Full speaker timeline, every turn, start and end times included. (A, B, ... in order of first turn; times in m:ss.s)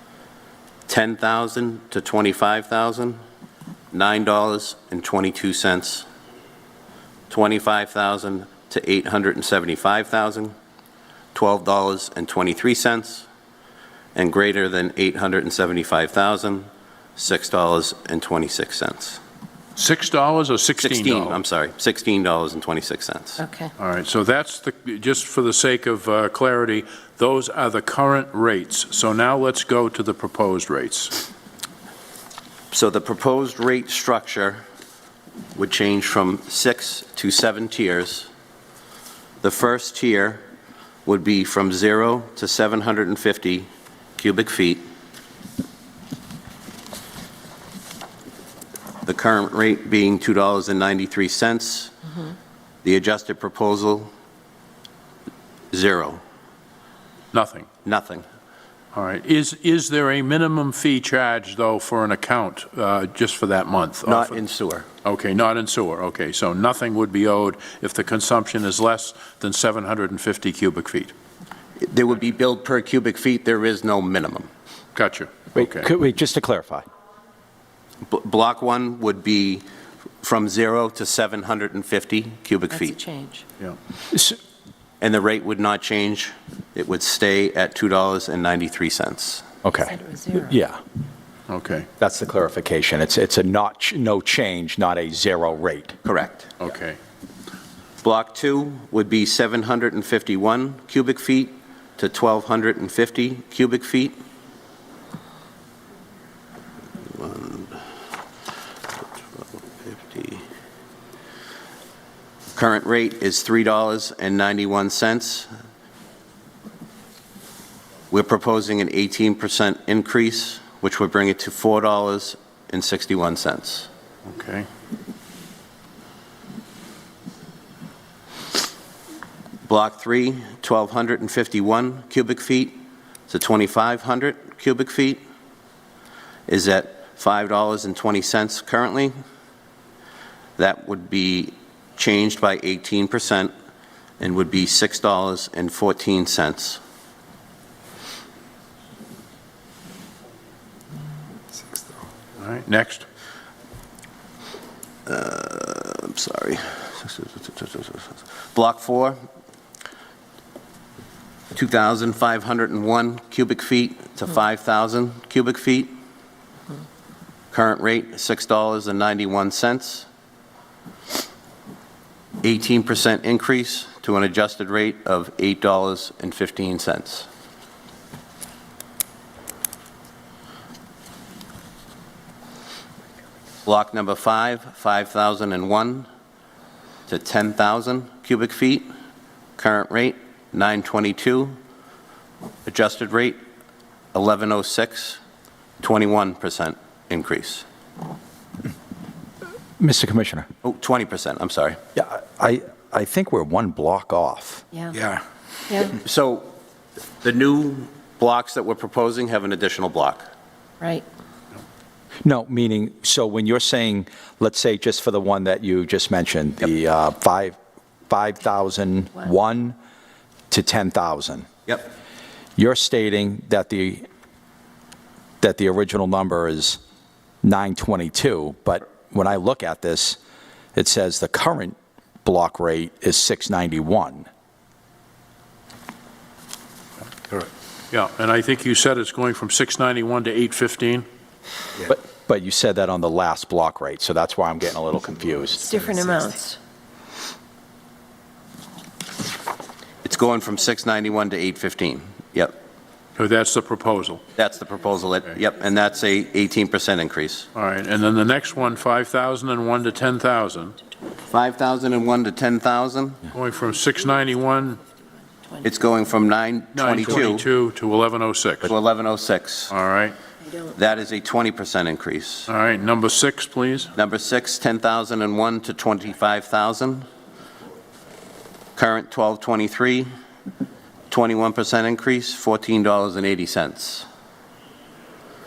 0:00.9-0:03.2 A
0:03.9-0:06.1 A
0:07.3-0:10.5 A
0:11.3-0:13.3 A
0:14.2-0:19.2 A
0:19.8-0:21.4 B
0:20.8-0:23.4 A
0:23.4-0:23.7 C
0:23.8-0:31.2 B
0:32.7-0:34.6 A
0:35.6-0:38.3 A
0:39.4-0:40.4 A
0:41.1-0:44.8 A
0:49.0-0:52.0 A
0:52.8-0:54.1 A
0:55.7-0:56.2 A
0:57.3-0:57.7 B
0:57.8-0:58.3 A
0:58.9-1:04.4 B
1:04.0-1:04.9 A
1:05.0-1:11.1 B
1:11.8-1:14.5 A
1:15.0-1:15.9 B
1:15.6-1:16.8 D
1:18.0-1:19.6 A
1:20.2-1:23.0 A
1:22.7-1:23.4 C
1:24.1-1:24.4 D
1:25.0-1:29.4 A
1:29.6-1:30.8 D
1:29.9-1:30.6 C
1:31.5-1:31.9 B
1:32.0-1:36.0 D
1:36.0-1:36.5 A
1:36.6-1:37.0 B
1:38.0-1:44.2 A
1:47.0-1:47.8 A
1:49.8-1:50.4 A
1:52.5-1:55.5 A
1:58.1-2:03.9 A
2:04.3-2:04.7 B
2:09.7-2:15.2 A
2:16.5-2:19.1 A
2:20.6-2:23.5 A
2:24.2-2:26.8 A
2:32.4-2:33.1 B
2:35.1-2:39.2 A
2:41.5-2:45.9 A
2:47.5-2:50.1 A
2:52.4-2:57.3 A
3:03.6-3:06.1 A
3:07.1-3:08.9 A
3:09.6-3:11.6 A
3:12.7-3:13.4 A
3:14.1-3:15.2 A
3:15.8-3:17.6 A
3:19.8-3:20.5 D
3:20.6-3:21.8 A
3:22.0-3:25.2 D
3:24.7-3:25.0 C
3:25.7-3:26.0 C
3:25.9-3:26.5 A
3:27.2-3:30.3 A
3:30.8-3:31.1 C
3:32.2-3:37.6 D
3:38.1-3:39.8 D
3:40.5-3:41.6 D
3:42.6-3:44.0 D
3:45.4-3:46.8 D
3:47.4-3:50.2 D
3:50.8-3:54.3 D
3:57.3-4:01.1 B
4:01.8-4:06.3 D
4:05.6-4:06.6 C
4:10.0-4:12.6 A
4:13.2-4:14.2 B
4:14.4-4:17.5 A
4:17.6-4:20.8 B
4:21.3-4:23.2 A
4:23.3-4:24.8 B
4:25.6-4:27.5 A
4:26.8-4:28.7 B
4:28.6-4:29.7 A
4:29.7-4:30.2 B
4:30.7-4:32.5 A
4:32.5-4:33.9 B
4:34.0-4:37.1 A
4:38.8-4:40.1 A
4:41.1-4:44.1 A